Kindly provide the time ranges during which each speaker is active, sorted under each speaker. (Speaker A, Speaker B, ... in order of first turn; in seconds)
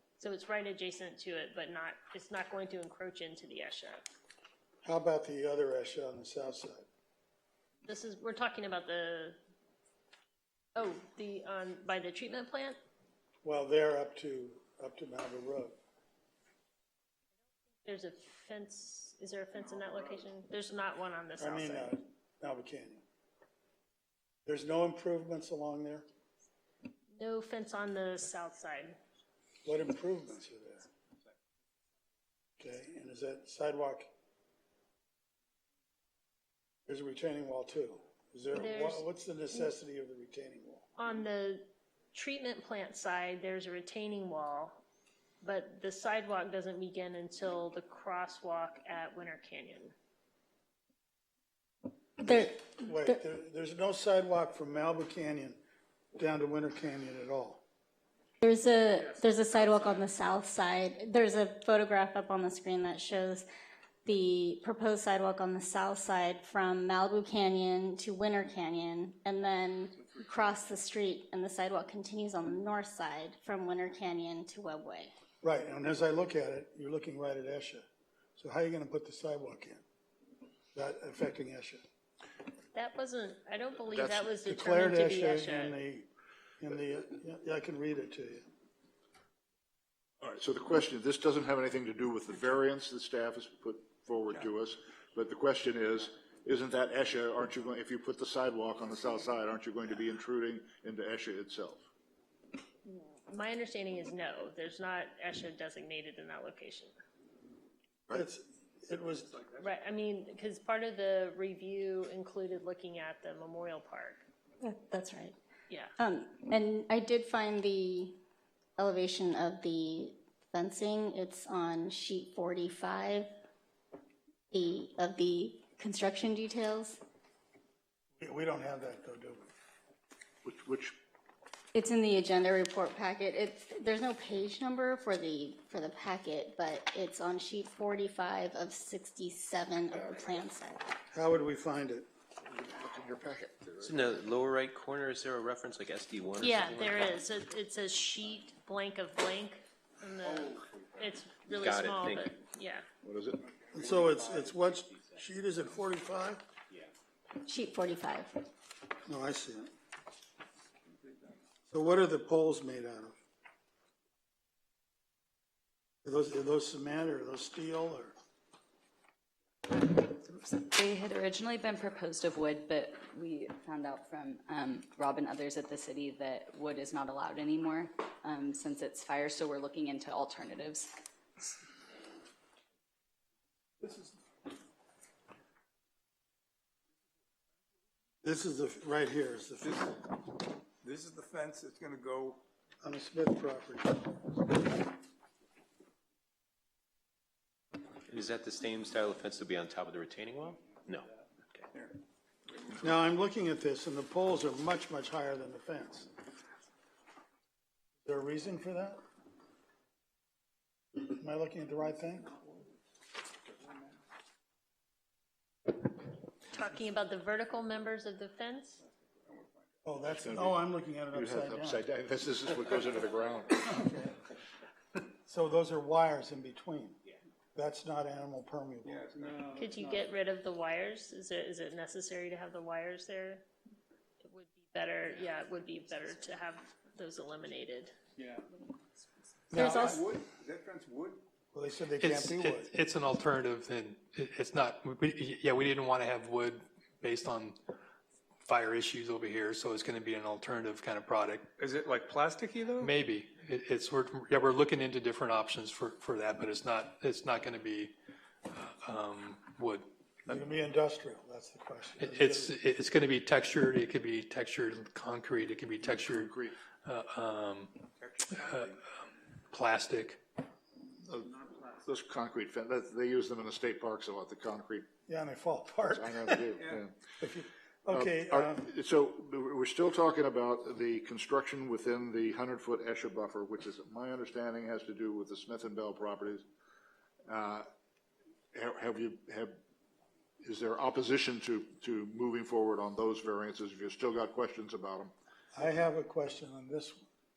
Speaker A: 0.2-4.0, 7.8-9.4, 10.8-12.8, 17.9-21.9, 27.2-29.0, 38.5-39.7, 41.0-44.8, 45.4-49.9, 82.7-85.8, 102.9-106.9, 109.6-114.2, 146.4-152.8, 216.5-218.8, 229.6-233.4, 234.2-237.9, 239.5-239.9
Speaker B: 4.8-6.8, 13.4-15.8, 21.4-23.0, 24.5-26.1, 29.6-30.9, 32.6-34.1, 36.9-40.9, 52.2-55.6, 56.1-57.6, 75.4-77.9, 78.4-79.8, 80.7-81.8, 84.5-86.1, 86.6-88.5, 108.1-109.4, 128.2-129.5, 141.1-142.1, 153.7-156.4, 159.1-159.7, 161.7-163.2, 166.0-168.2, 188.2-189.8, 192.8-194.3, 202.8-206.1, 208.0-209.0, 211.0-212.5, 219.8-221.8, 223.7-224.2, 225.3-227.0, 227.6-229.4, 239.5-240.1, 241.5-242.7, 260.3-262.6, 275.1-276.6, 277.2-278.7, 295.5-297.1
Speaker C: 52.2-53.2, 58.4-63.5, 64.0-75.1, 114.6-115.3, 116.0-118.1, 118.8-123.3, 124.5-127.0, 131.7-140.9, 157.4-158.4
Speaker D: 83.9-84.4, 90.2-101.8, 130.4-131.0, 142.5-144.1, 153.0-153.4, 220.1-223.8, 265.8-266.6, 271.1-271.3, 271.8-274.9, 275.9-276.9, 277.9-286.4, 287.3-287.6, 288.5-289.6, 290.4-295.1
Speaker E: 143.8-147.2, 151.5-152.3, 198.1-201.7
Speaker F: 150.4-150.8, 153.6-154.1, 189.6-189.9, 190.8-192.4, 219.3-219.7, 228.8-229.7, 238.2-238.4, 239.6-241.2, 251.6-252.9, 268.0-268.7
Speaker G: 169.9-180.9
Speaker H: 242.0-247.6, 248.4-251.5, 252.8-257.9, 258.5-259.9, 262.0-267.8, 268.3-268.8, 269.5-270.2